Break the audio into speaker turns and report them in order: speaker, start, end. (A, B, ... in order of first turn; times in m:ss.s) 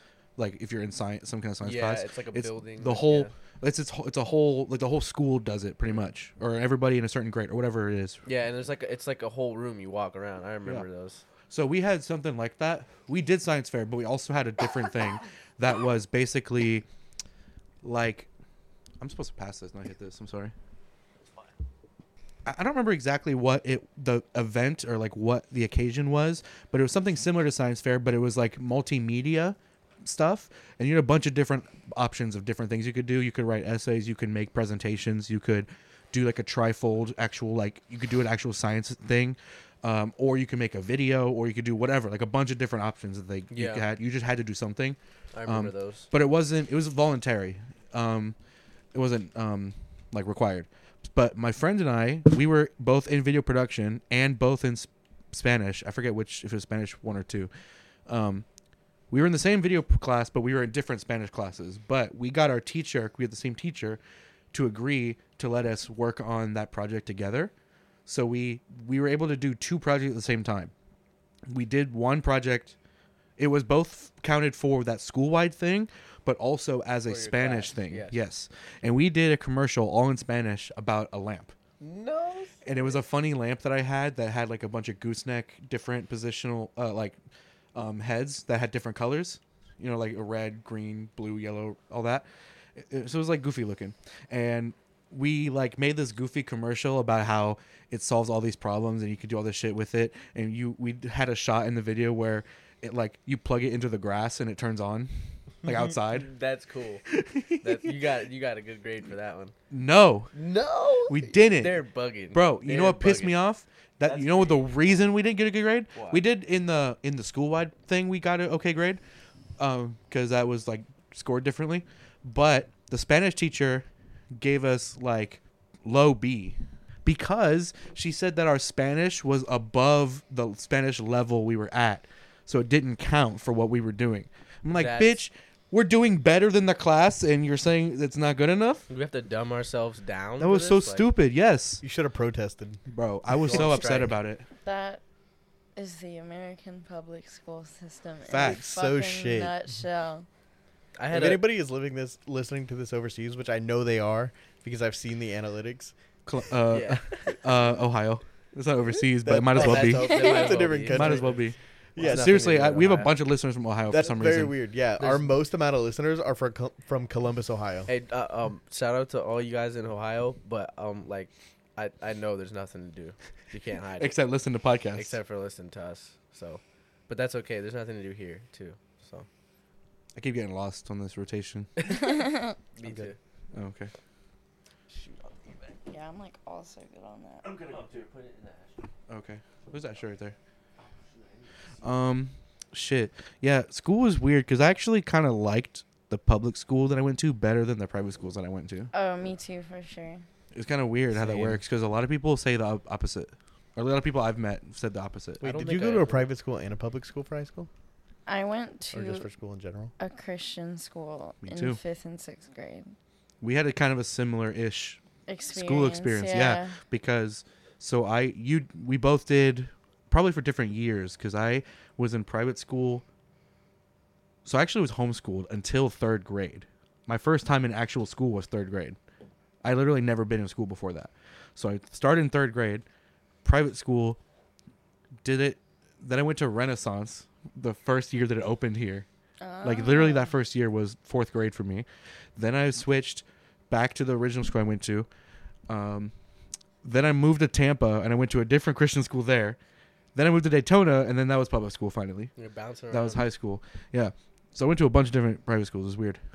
0:00.4-0:08.2 A
0:01.6-0:03.3 B
0:08.2-0:11.2 B
0:11.5-0:16.8 A
0:17.8-0:18.3 A
0:19.0-0:20.5 A
0:22.4-0:48.4 A
0:43.5-0:43.8 B
0:45.3-0:46.1 B
0:48.9-0:57.5 A
0:58.1-0:58.4 A
0:59.1-1:04.0 A
1:04.5-1:07.5 A
1:08.0-1:10.7 A
1:11.5-1:12.7 A
1:13.4-1:21.5 A
1:17.0-1:18.2 B
1:21.8-1:22.9 B
1:22.6-1:27.2 A
1:27.7-1:45.1 A
1:45.6-1:46.3 A
1:45.6-1:47.1 B
1:47.1-1:47.9 A
1:47.6-1:49.5 B
1:49.7-1:50.3 A
1:50.3-1:53.4 B
1:51.1-1:51.8 A
1:52.3-1:59.0 A
1:54.0-1:54.7 B
1:55.9-1:56.2 B
1:59.6-2:18.8 A
2:14.7-2:15.2 B
2:18.9-2:21.0 B
2:20.4-2:21.8 A
2:21.8-2:22.8 C
2:22.9-2:24.4 A
2:23.4-2:23.9 C
2:23.4-2:24.2 B
2:24.6-2:25.0 D
2:25.8-2:30.2 D
2:28.3-2:28.6 A
2:28.4-2:29.5 C
2:31.0-2:31.4 B
2:31.1-2:35.9 C
2:36.2-2:40.3 A
2:36.7-2:37.4 B
2:39.2-2:41.4 C
2:39.5-2:41.4 B
2:40.2-2:40.5 D
2:40.9-2:44.6 A
2:42.0-2:42.6 C
2:42.0-2:43.1 B
2:43.9-2:47.9 C
2:45.0-2:45.3 B
2:47.9-2:54.2 B
2:54.0-2:55.2 A
2:54.9-2:59.3 B
3:00.2-3:01.7 A
3:01.8-3:02.1 B
3:02.1-3:02.4 D
3:02.7-3:03.2 B
3:02.8-3:03.1 C
3:03.5-3:03.9 A
3:04.9-3:05.8 B
3:05.9-3:07.5 D
3:07.4-3:08.9 B
3:09.1-3:10.4 A
3:10.8-3:12.0 B
3:11.8-3:18.9 A
3:18.9-3:20.2 D
3:20.5-3:25.4 A
3:21.2-3:21.5 C
3:25.4-3:27.7 C
3:25.4-3:26.3 B
3:28.3-3:29.3 D
3:28.9-3:29.9 C
3:30.0-3:32.9 D
3:31.4-3:31.8 A
3:33.4-3:43.0 A
3:35.3-3:36.8 D
3:44.4-3:49.0 A
3:49.6-3:52.8 A
3:53.4-3:54.2 A
3:55.2-3:59.0 A
3:59.4-4:00.3 D
3:59.6-4:05.1 A
4:05.7-4:06.1 A
4:06.8-4:09.6 A
4:10.1-4:12.3 A
4:12.4-4:13.2 B
4:12.9-4:16.2 A